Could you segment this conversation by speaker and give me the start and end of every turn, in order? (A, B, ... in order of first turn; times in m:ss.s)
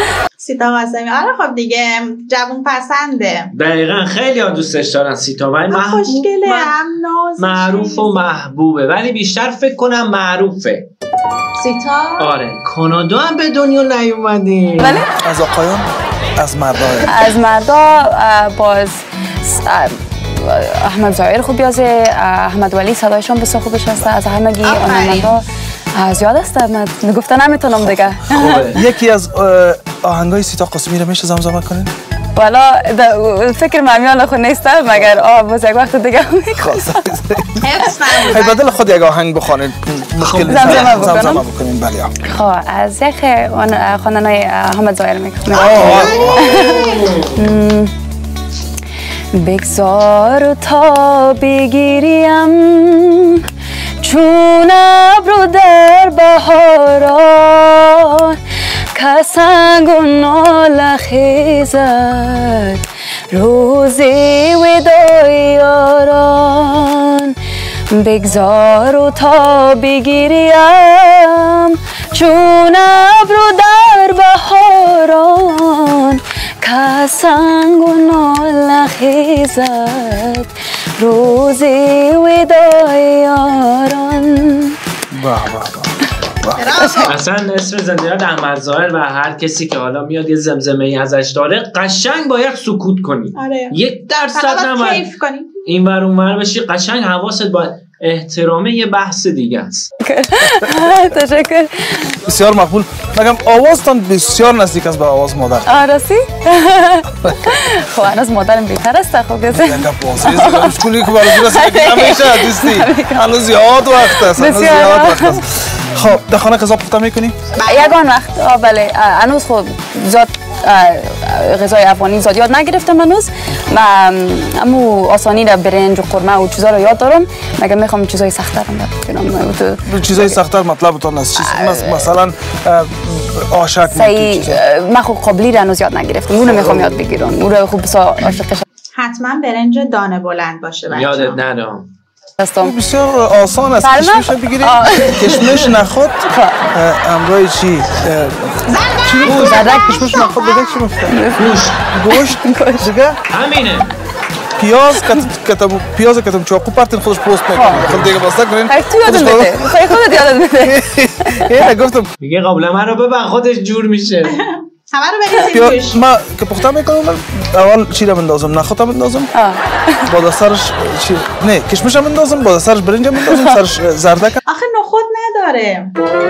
0:00.4-0:03.5 A
0:03.5-0:06.7 B
0:05.7-0:08.3 A
0:07.4-0:10.9 B
0:11.6-0:12.3 A
0:12.2-0:15.1 B
0:14.8-0:15.1 C
0:15.2-0:15.8 D
0:16.4-0:17.1 D
0:17.1-0:25.4 C
0:24.6-0:25.3 A
0:26.0-0:28.7 C
0:27.7-0:31.9 D
0:28.3-0:28.8 B
0:32.4-0:37.0 C
0:36.6-0:42.1 D
0:37.6-0:38.7 A
0:40.2-0:41.2 B
0:40.5-0:41.4 C
0:42.2-0:47.9 C
0:45.5-0:46.5 D
0:45.5-0:47.2 A
0:45.8-0:47.5 B
0:49.4-0:53.4 C
0:54.0-0:58.4 C
0:58.9-1:07.4 C
1:07.9-1:24.8 C
1:25.1-1:26.7 D
1:26.6-1:27.2 A
1:26.8-1:27.1 C
1:27.0-1:35.1 B
1:33.4-1:33.8 A
1:34.3-1:35.6 A
1:35.7-1:39.9 B
1:40.0-1:42.1 C
1:42.2-1:45.7 D
1:45.7-1:55.4 C
1:49.5-1:57.3 D
1:57.6-1:57.9 A
1:57.6-2:10.4 C
2:09.9-2:14.6 D
2:11.4-2:12.1 C
2:13.9-2:18.6 C
2:16.4-2:17.0 D
2:19.0-2:21.4 A
2:20.9-2:21.9 B
2:22.4-2:22.7 C
2:22.6-2:31.2 D
2:23.8-2:25.3 C
2:25.2-2:25.8 B
2:26.3-2:26.6 C
2:28.7-2:30.9 A
2:29.2-2:29.7 B
2:29.5-2:30.0 C
2:31.1-2:31.5 C
2:31.4-2:31.9 B
2:31.9-2:33.2 D
2:32.1-2:32.9 C
2:33.3-2:33.9 B
2:34.6-2:42.1 D
2:37.5-2:38.0 C
2:37.8-2:38.2 B
2:38.7-2:41.6 C
2:42.2-2:44.4 B
2:44.2-2:46.0 A
2:45.5-2:49.3 D
2:49.4-2:50.1 C
2:50.1-2:54.4 D
2:53.2-2:53.6 C
2:54.5-2:55.9 A